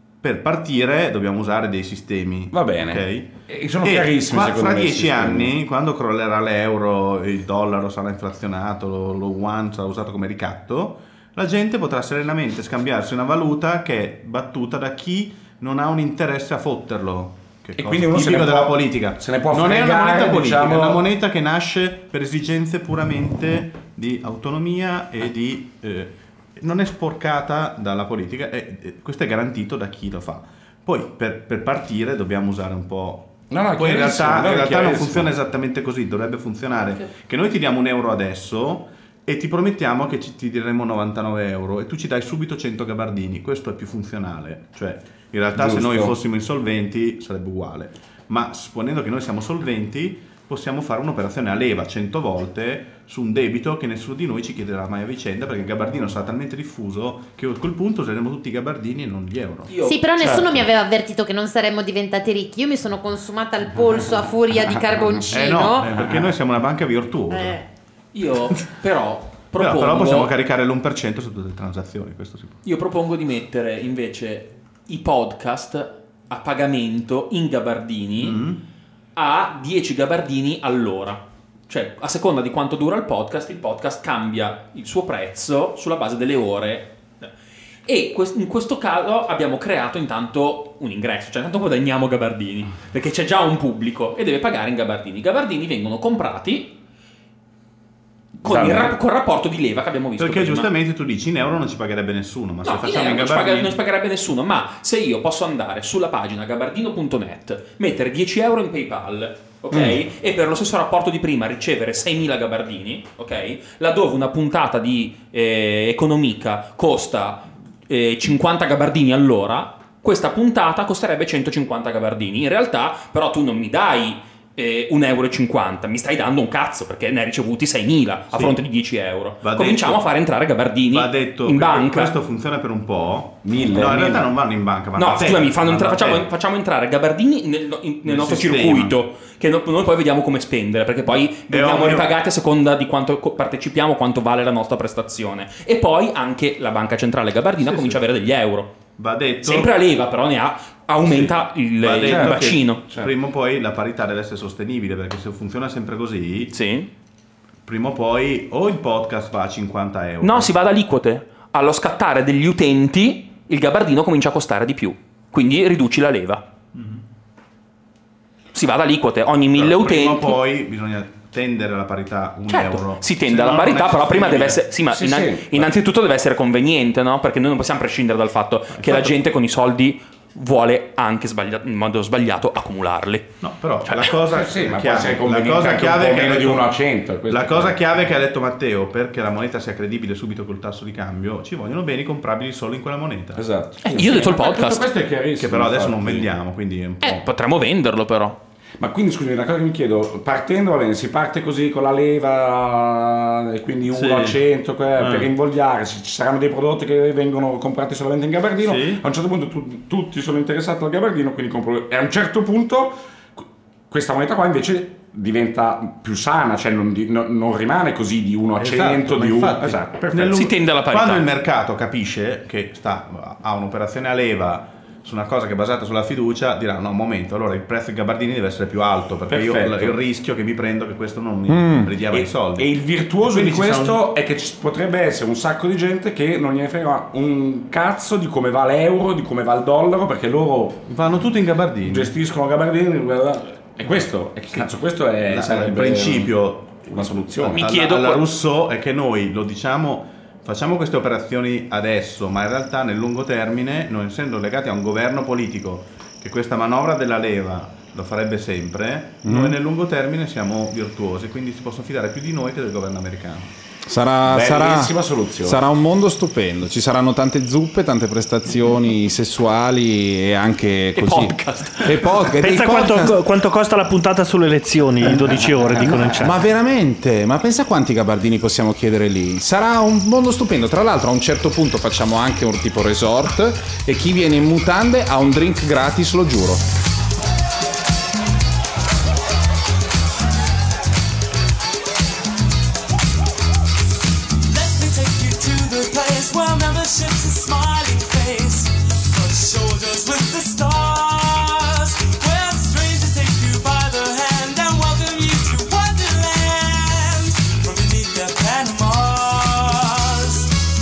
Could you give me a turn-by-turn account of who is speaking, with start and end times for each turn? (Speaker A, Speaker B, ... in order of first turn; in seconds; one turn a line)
Speaker A: 0.2-59.8
Speaker B: 2.5-5.5
Speaker B: 17.8-21.1
Speaker B: 33.5-35.3
Speaker B: 45.5-46.1
Speaker C: 59.7-60.6
Speaker D: 59.8-65.8
Speaker A: 65.3-67.6
Speaker C: 65.4-66.1
Speaker C: 68.1-70.3
Speaker A: 69.6-72.6
Speaker C: 72.7-78.4
Speaker A: 78.2-78.6
Speaker C: 79.2-87.3
Speaker C: 87.9-96.8
Speaker B: 98.4-98.9
Speaker C: 98.4-100.7
Speaker A: 100.2-103.8
Speaker C: 102.6-132.1
Speaker A: 128.3-128.6
Speaker A: 129.4-130.0
Speaker A: 130.9-136.2
Speaker B: 133.4-134.3
Speaker C: 134.9-148.7
Speaker A: 138.1-138.9
Speaker A: 141.5-142.1
Speaker A: 149.0-149.7
Speaker C: 149.4-152.8
Speaker A: 151.0-156.5
Speaker B: 152.0-153.1
Speaker C: 156.5-156.9
Speaker A: 157.7-160.5
Speaker C: 160.2-166.4
Speaker A: 166.8-167.0
Speaker C: 168.5-170.4
Speaker A: 169.5-174.6
Speaker C: 172.5-183.3
Speaker B: 174.9-175.7
Speaker A: 178.8-179.2
Speaker A: 183.4-186.8
Speaker C: 183.9-184.2
Speaker B: 184.3-188.0
Speaker A: 187.3-193.4
Speaker B: 193.4-196.3
Speaker C: 193.8-194.8
Speaker A: 195.4-197.2
Speaker C: 197.0-198.4
Speaker B: 198.8-220.4
Speaker A: 203.9-204.4
Speaker A: 205.0-205.3
Speaker A: 208.6-209.0
Speaker A: 218.6-234.0
Speaker C: 220.3-221.3
Speaker B: 229.3-230.0
Speaker E: 231.5-231.9
Speaker B: 232.1-240.9
Speaker A: 240.9-242.1
Speaker B: 241.8-246.4
Speaker A: 245.3-263.5
Speaker B: 246.9-247.7
Speaker C: 247.6-248.2
Speaker E: 259.2-259.6
Speaker E: 263.9-273.2
Speaker B: 264.3-265.6
Speaker C: 270.9-272.1
Speaker F: 272.4-276.4
Speaker E: 276.2-286.6
Speaker G: 294.4-310.5